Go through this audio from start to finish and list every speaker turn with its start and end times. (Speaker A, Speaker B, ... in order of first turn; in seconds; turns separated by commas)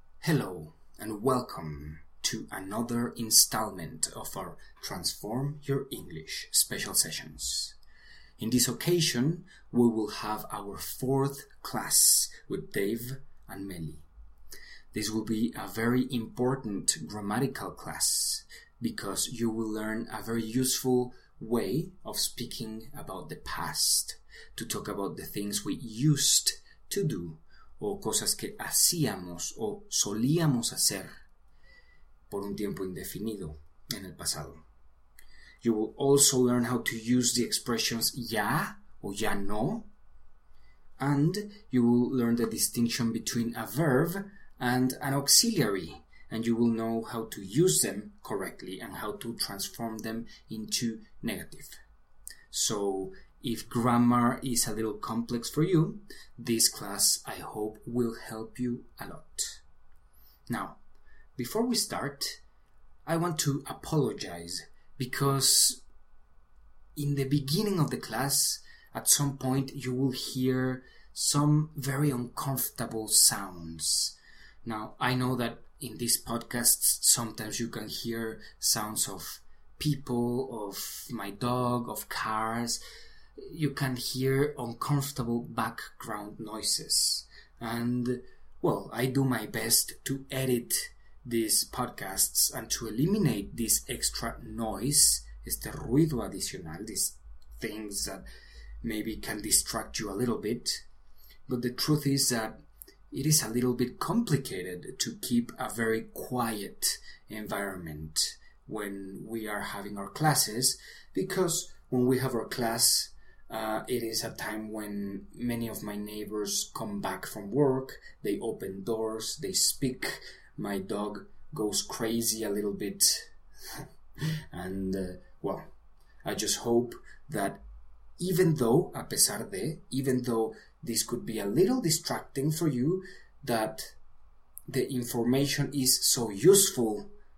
Speaker A: 0.2-7.8, Speaker A: 8.4-14.0, Speaker A: 14.9-31.2, Speaker A: 32.3-34.6, Speaker A: 35.6-39.9, Speaker A: 41.0-51.8, Speaker A: 52.5-59.6, Speaker A: 60.5-60.8, Speaker A: 61.4-62.4, Speaker A: 63.0-65.8, Speaker A: 67.0-82.8, Speaker A: 83.4-98.2, Speaker A: 98.8-100.8, Speaker A: 101.5-102.6, Speaker A: 103.1-123.8, Speaker A: 124.5-125.7, Speaker A: 126.2-127.6, Speaker A: 128.2-133.9, Speaker A: 134.7-137.1